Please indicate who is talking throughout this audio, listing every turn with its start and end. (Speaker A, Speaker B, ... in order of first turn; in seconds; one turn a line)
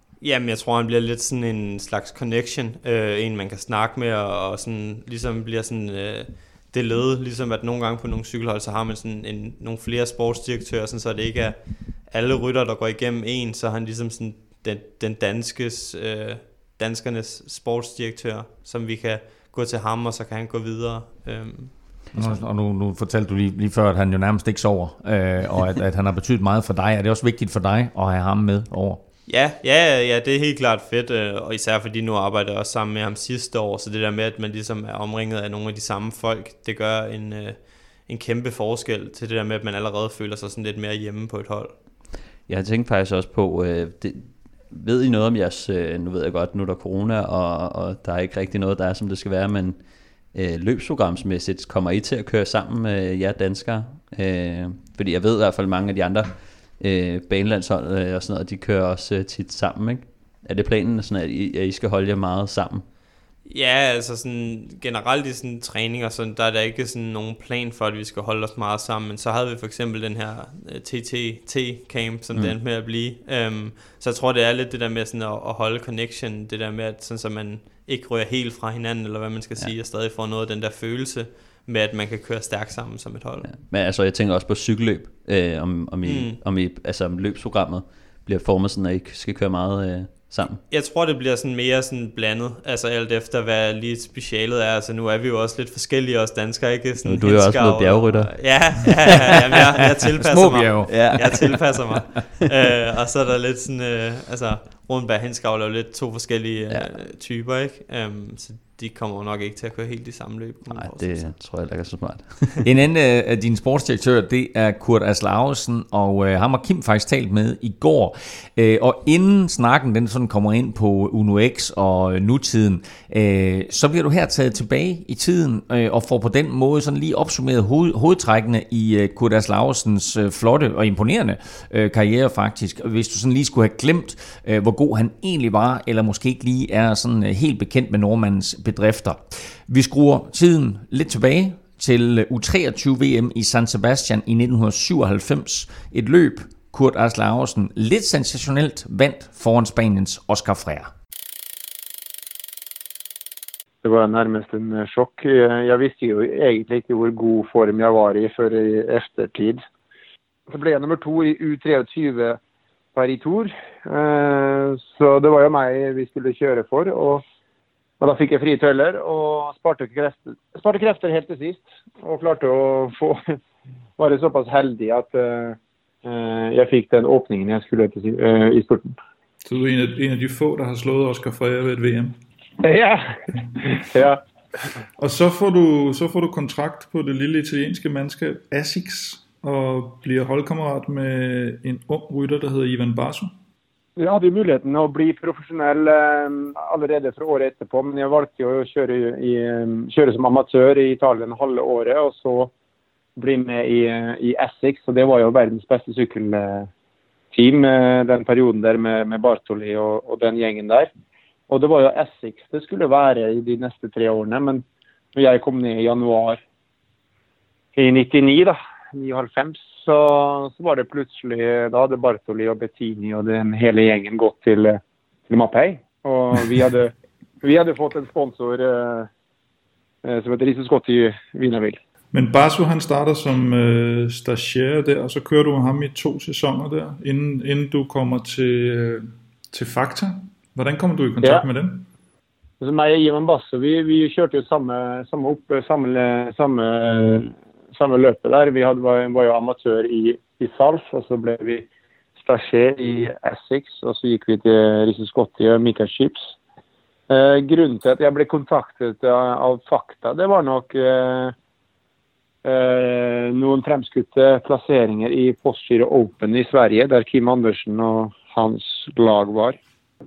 Speaker A: 0.2-22.0
Speaker B: 22.1-29.0
Speaker A: 29.3-41.8
Speaker C: 42.5-49.8
Speaker C: 50.3-62.9
Speaker A: 63.5-83.5
Speaker C: 83.4-90.6
Speaker A: 86.0-86.4
Speaker A: 90.7-111.3
Speaker C: 97.0-98.5
Speaker B: 100.2-102.0
Speaker C: 100.9-101.7
Speaker C: 110.7-112.6
Speaker B: 112.6-150.9
Speaker D: 153.8-159.6
Speaker D: 160.5-162.4
Speaker D: 162.9-167.2
Speaker D: 168.0-173.4
Speaker D: 174.0-179.0
Speaker E: 179.4-182.1
Speaker D: 182.6-184.2
Speaker E: 185.0-193.3
Speaker D: 194.0-202.5
Speaker D: 203.2-206.7
Speaker D: 207.3-210.9
Speaker D: 211.5-216.4
Speaker D: 217.8-229.1
Speaker D: 230.0-231.8
Speaker E: 232.1-241.9
Speaker D: 242.6-251.7
Speaker D: 252.2-256.3
Speaker D: 257.1-261.3
Speaker D: 262.4-269.6